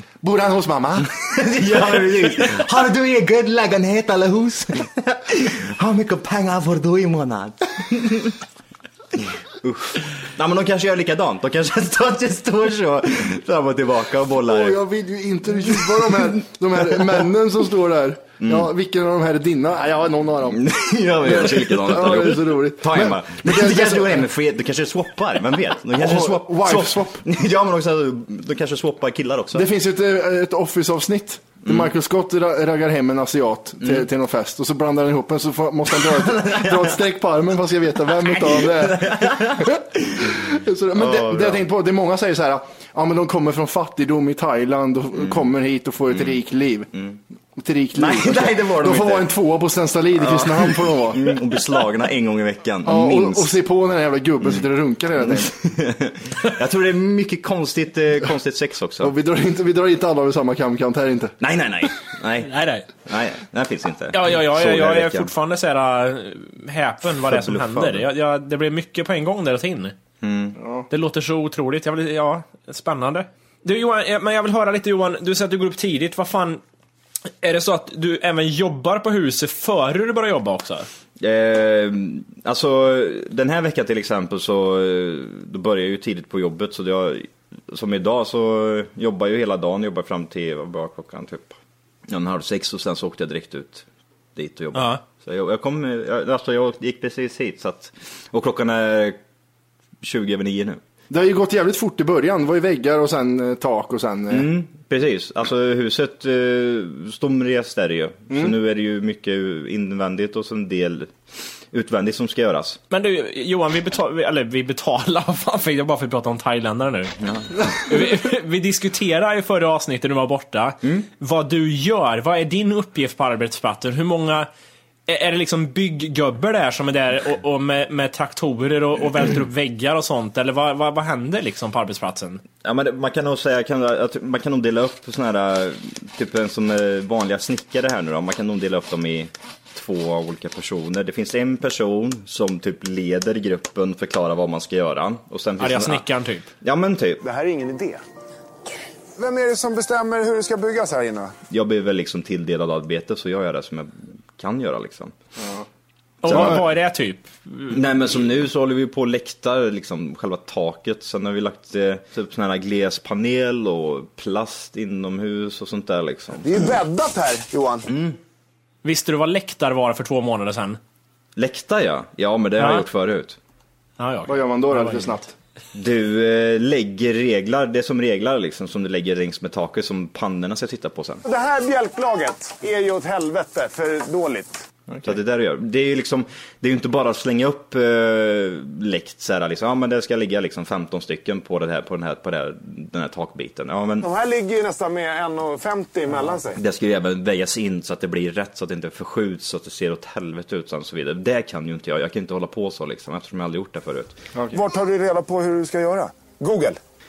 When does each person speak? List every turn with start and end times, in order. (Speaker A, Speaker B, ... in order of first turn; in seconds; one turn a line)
Speaker A: 0.2-1.1
Speaker B: 1.2-8.4
Speaker B: 9.2-14.8
Speaker A: 14.5-20.6
Speaker B: 15.7-17.2
Speaker B: 18.4-18.7
Speaker B: 20.4-29.7
Speaker A: 21.2-24.3
Speaker A: 25.9-27.2
Speaker A: 29.5-46.9
Speaker B: 31.6-31.9
Speaker B: 33.8-34.1
Speaker B: 35.9-37.0
Speaker B: 38.0-40.4
Speaker B: 40.9-41.6
Speaker B: 45.1-45.5
Speaker B: 46.1-46.4
Speaker A: 47.6-51.2
Speaker B: 47.9-49.4
Speaker B: 50.1-53.6
Speaker A: 52.8-55.5
Speaker B: 54.4-59.1
Speaker A: 59.0-61.3
Speaker B: 61.4-62.5
Speaker C: 62.4-62.9
Speaker B: 63.0-65.3
Speaker C: 64.1-69.9
Speaker B: 67.2-68.1
Speaker B: 70.2-70.6
Speaker A: 70.6-70.8
Speaker C: 70.9-76.6
Speaker C: 77.4-80.9
Speaker B: 81.2-91.5
Speaker B: 92.1-99.2
Speaker C: 94.7-95.0
Speaker B: 100.0-100.8
Speaker A: 101.1-104.5
Speaker B: 104.3-111.1
Speaker A: 108.3-108.5
Speaker B: 111.7-112.8
Speaker C: 112.9-117.2
Speaker B: 117.2-117.6
Speaker C: 117.7-124.5
Speaker C: 125.1-132.4
Speaker B: 132.6-146.1
Speaker C: 145.6-146.5
Speaker B: 146.6-147.2
Speaker D: 147.2-148.0
Speaker D: 149.2-151.3
Speaker B: 151.5-155.1
Speaker B: 156.2-156.6
Speaker C: 156.2-158.2
Speaker A: 156.4-156.6
Speaker B: 157.7-166.5
Speaker D: 166.4-167.9
Speaker B: 167.9-168.2
Speaker C: 168.8-170.8
Speaker B: 171.3-173.4
Speaker C: 172.6-172.9
Speaker C: 174.0-175.2
Speaker A: 174.3-175.3
Speaker B: 175.7-181.2
Speaker D: 181.2-184.7
Speaker B: 185.0-194.1
Speaker D: 194.0-196.6
Speaker B: 196.5-204.2
Speaker A: 204.3-204.6
Speaker D: 204.5-206.8